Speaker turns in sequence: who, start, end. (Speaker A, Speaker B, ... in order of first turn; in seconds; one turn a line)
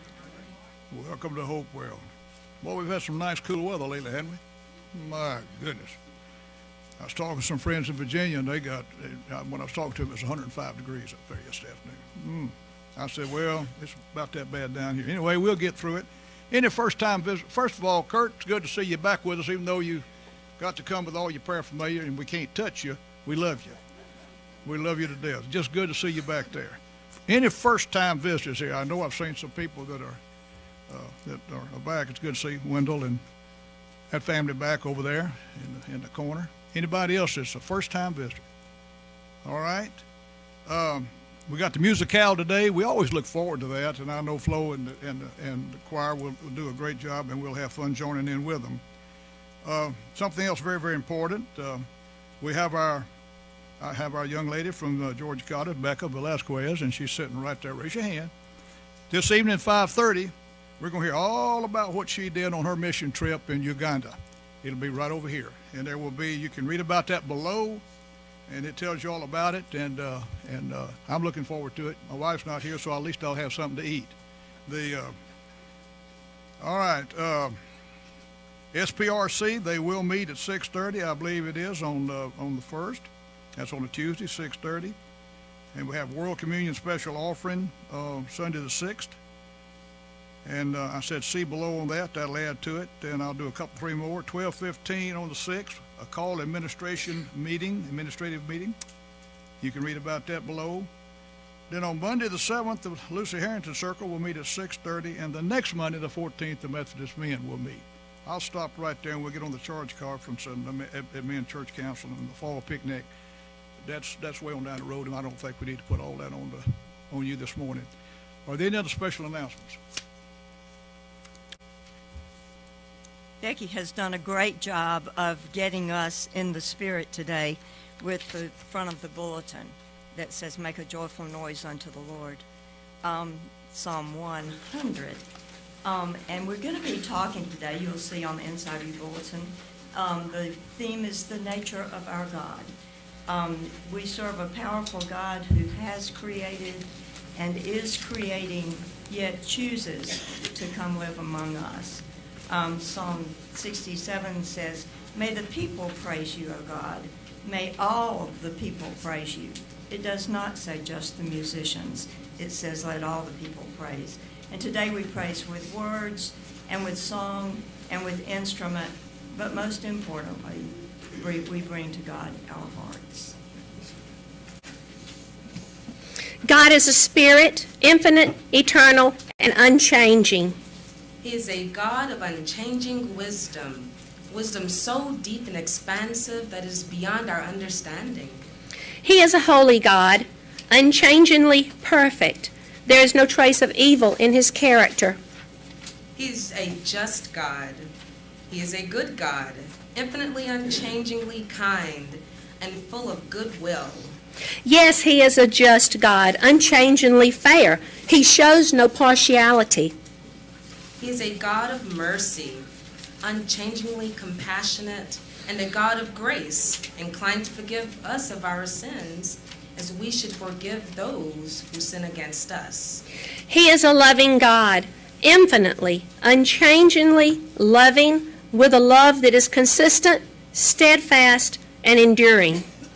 Speaker A: 0.9-2.0
Speaker A: 2.6-4.4
Speaker A: 4.9-6.0
Speaker A: 7.0-20.0
Speaker A: 20.6-23.8
Speaker A: 24.6-30.2
Speaker A: 30.9-33.2
Speaker A: 34.1-38.4
Speaker A: 39.4-40.0
Speaker A: 40.7-48.8
Speaker A: 49.6-51.9
Speaker A: 52.4-53.1
Speaker A: 53.8-58.3
Speaker A: 59.1-67.8
Speaker A: 68.5-74.1
Speaker A: 74.7-75.1
Speaker A: 76.6-77.6
Speaker A: 78.7-85.0
Speaker A: 85.7-89.2
Speaker A: 90.5-98.8
Speaker A: 99.6-100.9
Speaker A: 101.7-113.1
Speaker A: 113.8-117.9
Speaker A: 118.5-119.8
Speaker B: 123.4-132.4
Speaker B: 133.0-135.2
Speaker B: 135.8-142.7
Speaker B: 143.3-173.4
Speaker C: 176.5-180.6
Speaker D: 181.2-188.4
Speaker C: 189.0-195.2
Speaker D: 196.2-197.9
Speaker D: 198.5-204.1
Speaker C: 204.6-209.9
Speaker D: 211.0-212.7
Speaker D: 213.2-223.0
Speaker C: 223.5-232.7